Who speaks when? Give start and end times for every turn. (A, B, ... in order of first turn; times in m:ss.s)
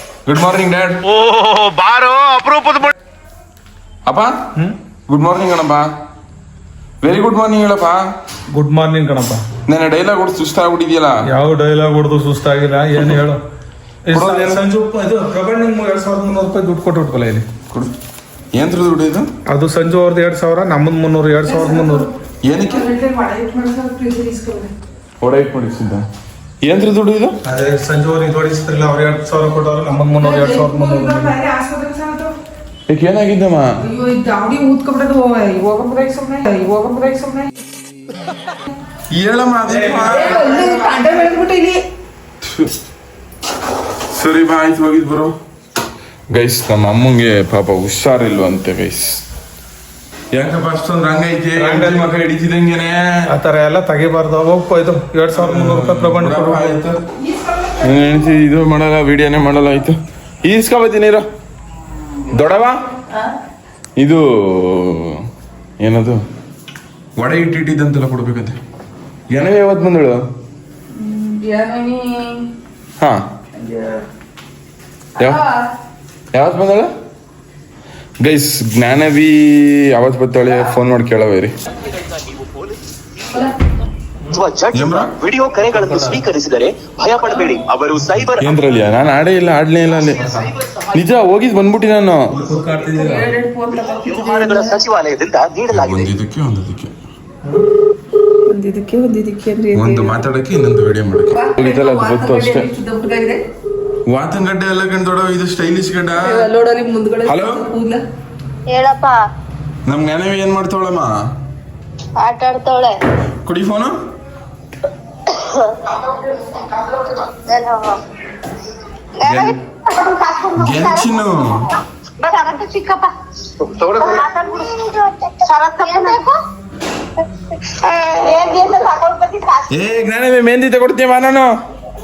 0:00.2-0:01.0 A
0:01.2-0:02.8 B
0:04.0-0:04.3 A
0:05.1-0:05.8 A
0:07.0-0:08.0 A
0:08.5-0:09.4 C
0:09.6-0:11.2 A
0:11.3-0:13.4 C
0:14.1-0:17.5 C
0:14.1-0:14.6 A
0:18.5-0:19.3 A
0:19.4-0:22.0 C
0:21.5-0:22.1 D
0:22.4-0:22.9 A
0:22.7-0:24.7 D
0:25.2-0:26.0 A
0:26.6-0:27.4 A
0:27.4-0:31.3 C
0:30.2-0:32.3 D
0:32.9-0:33.7 A
0:33.8-0:37.5 D
0:39.1-0:40.7 A
0:39.7-0:40.3 C
0:40.1-0:41.8 D
0:42.4-0:42.7 A
0:44.1-0:45.3 A
0:46.3-0:49.2 A
0:50.3-0:53.2 A
0:51.6-0:52.1 C
0:53.3-0:56.8 C
0:55.3-0:57.0 A
0:57.8-1:01.2 A
1:02.3-1:02.8 A
1:04.0-1:05.2 A
1:05.8-1:06.2 A
1:07.2-1:08.6 A
1:09.3-1:10.2 A
1:11.0-1:12.4 D
1:13.6-1:14.0 D
1:15.2-1:15.6 D
1:16.3-1:16.9 A
1:18.2-1:21.5 A
1:22.1-1:22.8 B
1:24.3-1:28.6 B
1:24.7-1:25.1 A
1:28.4-1:30.4 A
1:30.9-1:32.3 A
1:32.3-1:33.2 C
1:32.8-1:34.8 D
1:34.0-1:36.1 B
1:35.7-1:36.9 A
1:38.5-1:40.2 D
1:39.7-1:42.7 A
1:41.3-1:43.4 D
1:44.0-1:46.5 A
1:46.2-1:48.0 D
1:47.2-1:47.6 A
1:48.7-1:49.2 E
1:49.8-1:51.1 A
1:52.2-1:53.0 E
1:53.4-1:53.9 A
1:55.3-1:55.7 E
1:57.5-1:58.0 E
1:59.2-2:01.1 E
1:59.2-1:59.6 A
2:00.5-2:01.7 A
2:01.6-2:03.1 E
2:03.8-2:04.1 B
2:03.8-2:06.4 E
2:07.8-2:09.7 E
2:09.7-2:11.5 A